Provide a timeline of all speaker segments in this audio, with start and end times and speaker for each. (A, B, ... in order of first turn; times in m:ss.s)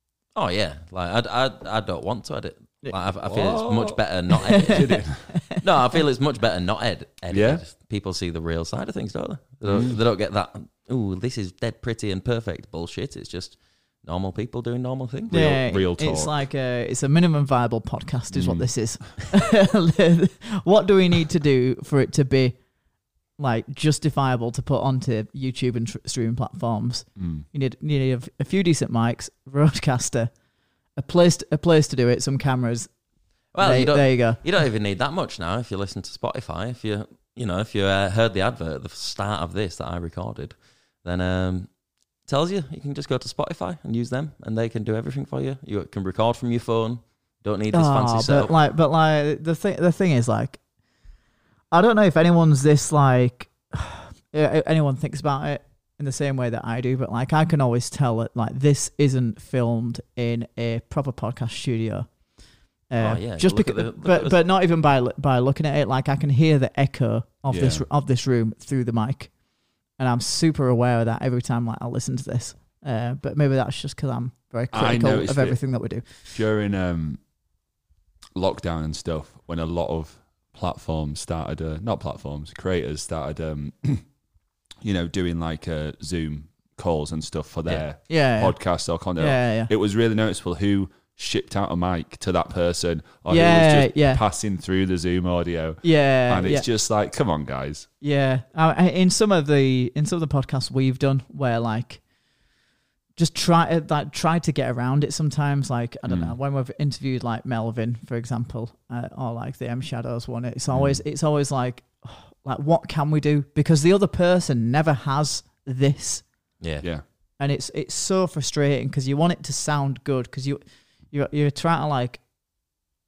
0:00.3-0:05.1 A
0:03.2-0:04.0 B
0:04.4-0:05.6 C
0:04.6-0:05.2 B
0:05.6-0:15.4 A
0:07.3-0:07.6 B
0:09.7-0:10.0 B
0:15.3-0:16.3 B
0:15.3-0:22.6 C
0:18.3-0:18.6 B
0:23.4-0:30.3 C
0:27.2-0:27.4 B
0:31.0-0:32.9 C
0:33.5-0:41.7 A
0:33.6-0:34.4 C
0:42.3-0:48.5 A
0:47.7-0:50.6 C
0:51.7-1:02.1 C
1:02.9-1:09.3 C
1:03.0-1:04.4 A
1:07.5-1:07.8 B
1:10.0-1:16.2 C
1:14.7-1:15.6 B
1:16.3-1:17.2 B
1:18.3-1:24.0 B
1:24.8-1:37.9 B
1:28.1-1:28.6 C
1:29.2-1:29.7 C
1:33.3-1:34.2 C
1:35.8-1:36.6 C
1:38.0-1:42.0 C
1:43.2-1:56.2 C
1:46.1-1:46.3 B
1:50.7-1:51.0 B
1:56.6-1:56.8 A
1:57.4-2:00.6 C
2:01.1-2:02.2 C